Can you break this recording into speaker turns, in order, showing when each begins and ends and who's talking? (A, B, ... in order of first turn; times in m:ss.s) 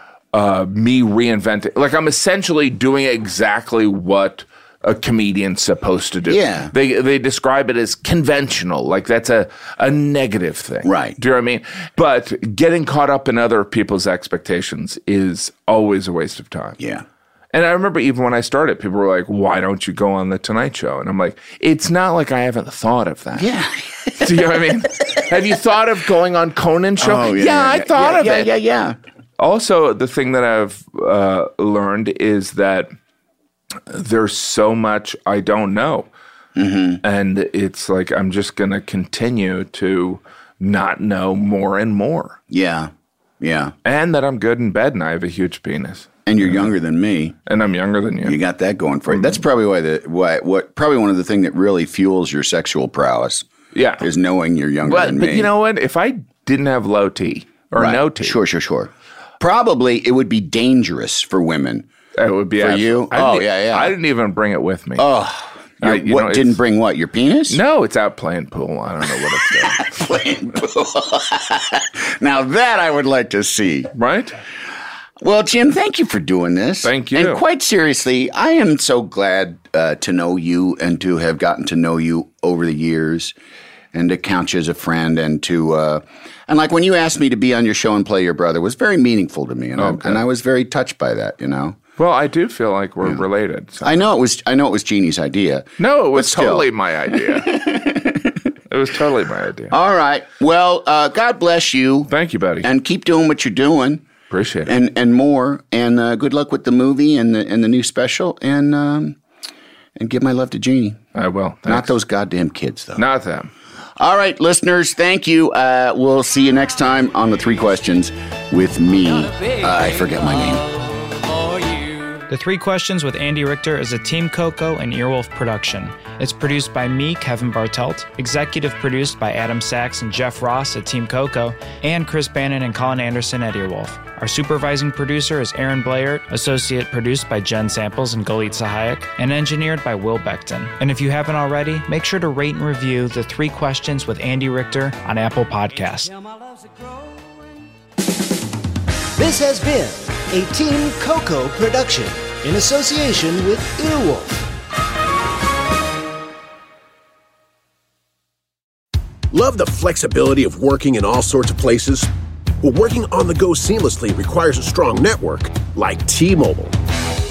0:00.3-0:16.8 A
0:06.3-0:06.7 B
0:10.8-0:11.2 B
0:16.8-0:17.0 B
0:17.5-0:23.5 A
0:23.3-0:24.6 B
0:24.1-0:28.5 A
0:27.0-0:29.0 B
0:29.4-0:32.9 A
0:33.9-0:36.1 A
0:36.6-0:37.0 B
0:37.0-0:42.4 A
0:42.5-0:43.7 B
0:43.8-0:46.7 A
0:46.2-0:47.4 B
0:47.4-0:48.4 A
0:48.2-0:53.5 B
0:49.1-0:49.4 A
0:53.7-0:54.1 A
0:54.0-0:55.5 B
0:54.8-0:58.4 A
0:57.7-1:01.8 B
1:02.2-1:05.0 A
1:02.6-1:04.0 B
1:05.0-1:07.6 B
1:05.8-1:06.6 A
1:07.5-1:10.1 A
1:09.0-1:13.9 B
1:13.9-1:14.4 A
1:15.2-1:23.3 B
1:16.8-1:17.4 A
1:23.9-1:31.8 B
1:29.8-1:30.2 A
1:32.0-1:34.0 A
1:33.8-1:38.5 B
1:35.8-1:37.6 A
1:38.7-1:39.8 A
1:39.7-1:44.0 B
1:42.1-1:42.7 A
1:44.3-1:44.7 A
1:44.6-1:49.2 B
1:50.0-1:51.0 B
1:51.1-1:51.9 A
1:51.6-1:53.0 B
1:53.0-1:53.5 A
1:54.0-2:00.6 B
1:59.0-2:02.3 C
2:02.3-2:26.1 D
2:29.2-2:34.4 E
2:39.3-2:42.1 F
2:42.6-2:46.8 F